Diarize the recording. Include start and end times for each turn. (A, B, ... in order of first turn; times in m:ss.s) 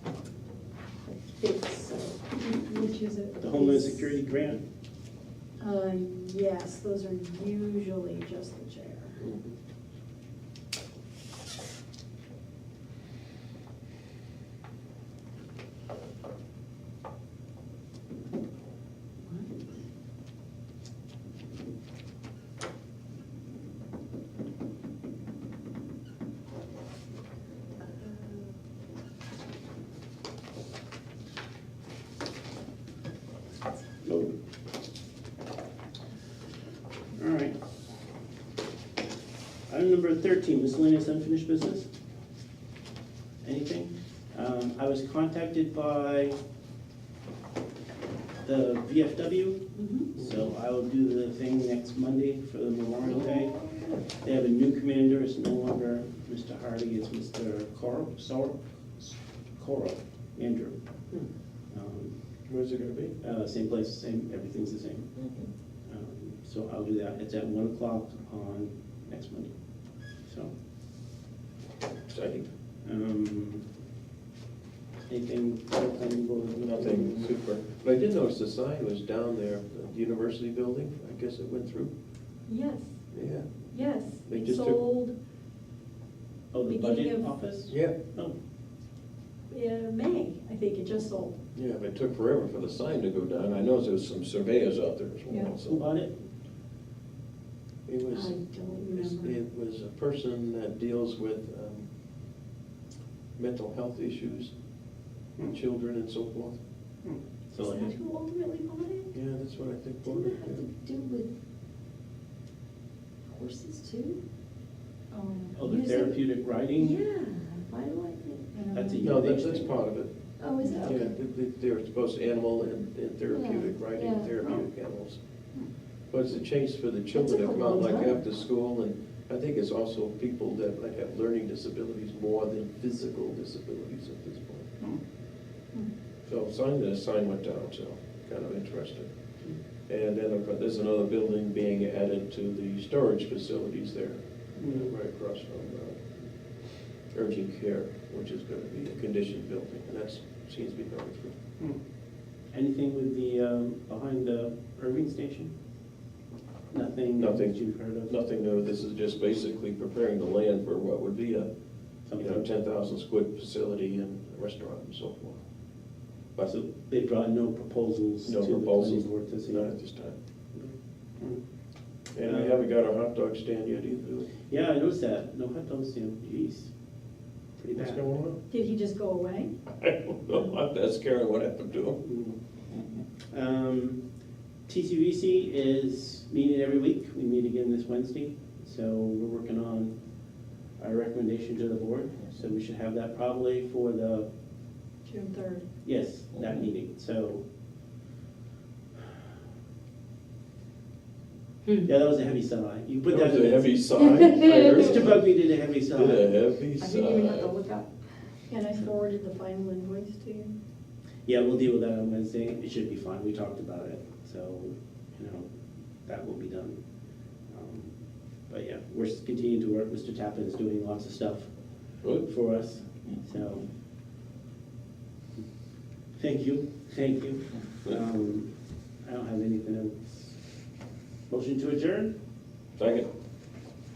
0:01.3-0:04.1 A
0:03.4-0:04.6 B
0:05.6-0:09.2 A
0:09.2-0:09.6 C
0:34.0-0:34.4 B
0:37.2-0:37.6 B
0:39.7-0:41.9 B
0:43.4-0:46.4 B
0:48.4-0:53.6 B
0:49.8-0:50.1 A
0:50.2-0:50.4 C
0:54.2-1:00.8 B
1:01.7-1:02.1 B
1:02.5-1:03.2 C
1:03.2-1:05.1 B
1:05.2-1:05.5 C
1:05.8-1:09.5 B
1:10.2-1:10.5 B
1:12.1-1:12.5 C
1:12.8-1:13.6 B
1:15.1-1:17.3 B
1:16.6-1:21.9 C
1:22.5-1:23.1 A
1:23.1-1:24.8 C
1:23.7-1:25.2 A
1:26.5-1:28.4 B
1:26.6-1:27.3 A
1:27.7-1:28.0 C
1:29.5-1:31.4 A
1:31.5-1:35.9 C
1:35.6-1:36.2 B
1:37.8-1:41.9 C
1:38.1-1:39.4 A
1:43.4-1:44.5 C
1:45.5-1:46.6 C
1:47.0-1:47.9 B
1:47.6-1:48.0 D
1:47.6-1:49.1 A
1:49.1-1:50.6 C
1:50.0-1:51.3 D
1:53.3-1:54.2 D
1:55.1-1:55.6 A
1:55.5-1:57.0 B
1:55.6-1:56.1 D
1:56.8-1:58.5 D
1:58.5-1:59.0 A
1:58.7-1:59.8 B
1:59.0-2:14.7 C
2:00.4-2:01.1 D
2:00.6-2:01.1 A
2:03.3-2:04.3 D
2:07.1-2:08.2 D
2:16.2-2:19.3 C
2:19.9-2:31.3 C
2:24.6-2:24.9 B
2:32.5-2:35.5 B
2:36.7-2:38.1 B
2:37.2-2:41.5 C
2:42.0-2:45.4 C
2:42.0-2:42.5 B
2:46.4-2:49.7 B
2:48.2-2:50.1 C
2:50.5-2:51.4 B
2:52.1-2:54.3 C
2:52.2-2:52.7 B
2:54.5-2:56.7 B
2:57.6-2:58.1 B
2:57.7-2:58.4 C
2:58.5-2:59.5 A
2:59.7-3:02.0 C
3:02.0-3:02.4 B
3:03.3-3:04.0 B
3:04.6-3:10.0 B
3:10.8-3:14.3 B
3:15.0-3:15.6 A
3:15.8-3:17.4 B
3:21.8-3:26.3 B
3:23.1-3:25.2 C
3:25.9-3:27.6 C
3:26.8-3:27.9 D
3:28.5-3:30.5 A
3:31.2-3:35.5 B
3:36.0-3:36.8 B
3:37.5-3:37.9 B
3:38.5-3:41.5 B
3:42.0-3:42.3 C
3:42.1-3:43.7 B
3:46.1-3:50.2 B
3:51.3-3:52.1 B
3:52.8-3:53.1 C